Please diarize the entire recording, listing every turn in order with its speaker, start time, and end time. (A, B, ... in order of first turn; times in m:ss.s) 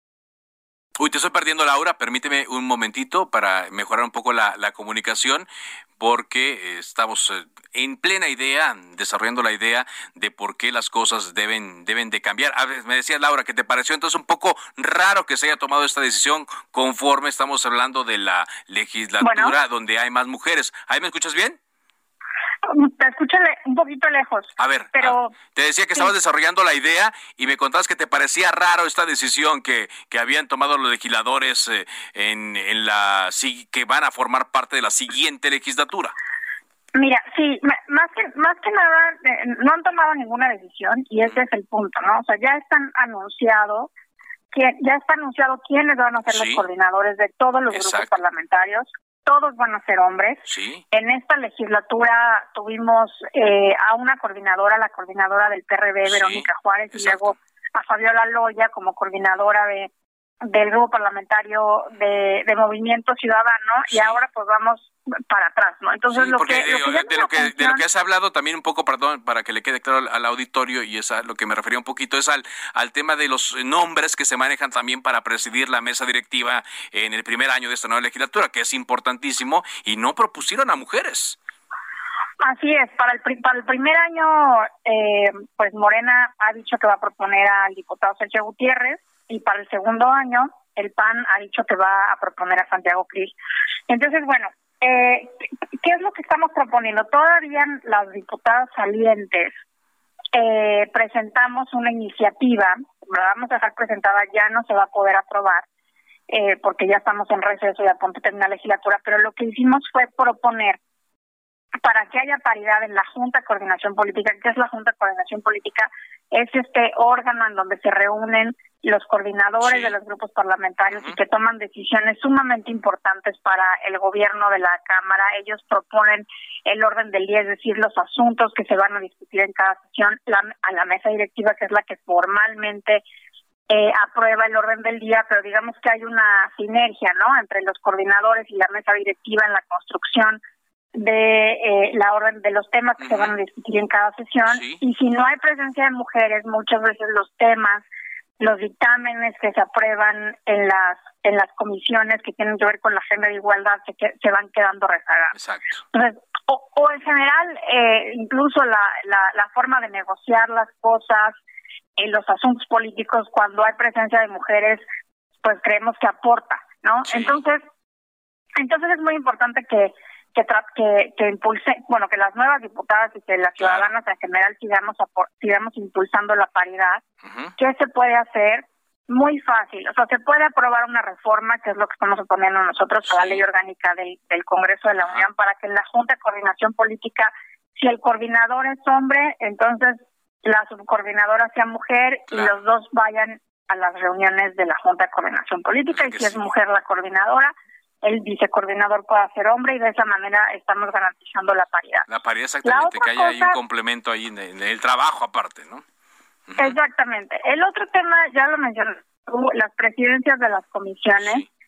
0:01.0-0:05.5 A
0:06.0-0:21.6 A
0:19.2-0:19.5 B
0:22.7-0:25.3 B
0:24.6-0:36.1 A
0:37.0-0:43.9 B
0:44.5-0:50.4 B
0:46.3-0:46.6 A
0:47.7-0:48.1 A
0:50.4-0:50.8 A
0:50.9-0:59.9 B
0:56.0-0:57.4 A
1:00.5-1:07.8 B
1:03.9-1:04.2 A
1:06.1-1:21.4 A
1:22.4-1:33.3 B
1:33.9-1:39.5 B
1:40.3-1:45.6 B
1:46.3-1:50.8 B
1:51.8-2:13.0 B
1:59.6-1:59.9 A
2:00.9-2:01.2 A
2:13.7-2:20.4 B
2:21.0-2:27.8 B
2:23.0-2:23.4 A
2:24.5-2:24.8 A
2:28.4-2:35.3 B
2:35.3-2:35.8 A
2:35.9-2:41.4 B
2:42.0-2:44.8 B
2:45.4-2:47.6 B
2:47.0-2:47.4 A
2:48.6-2:57.0 B
2:53.6-2:53.9 A
2:57.2-2:57.5 A
2:57.6-3:17.5 B
3:03.0-3:03.4 A
3:05.0-3:05.3 A
3:12.3-3:12.6 A
3:15.9-3:16.5 A
3:18.0-3:22.0 B
3:22.1-3:25.8 A
3:22.6-3:23.6 B
3:26.5-3:26.8 A
3:26.6-3:31.4 B
3:31.2-3:31.4 A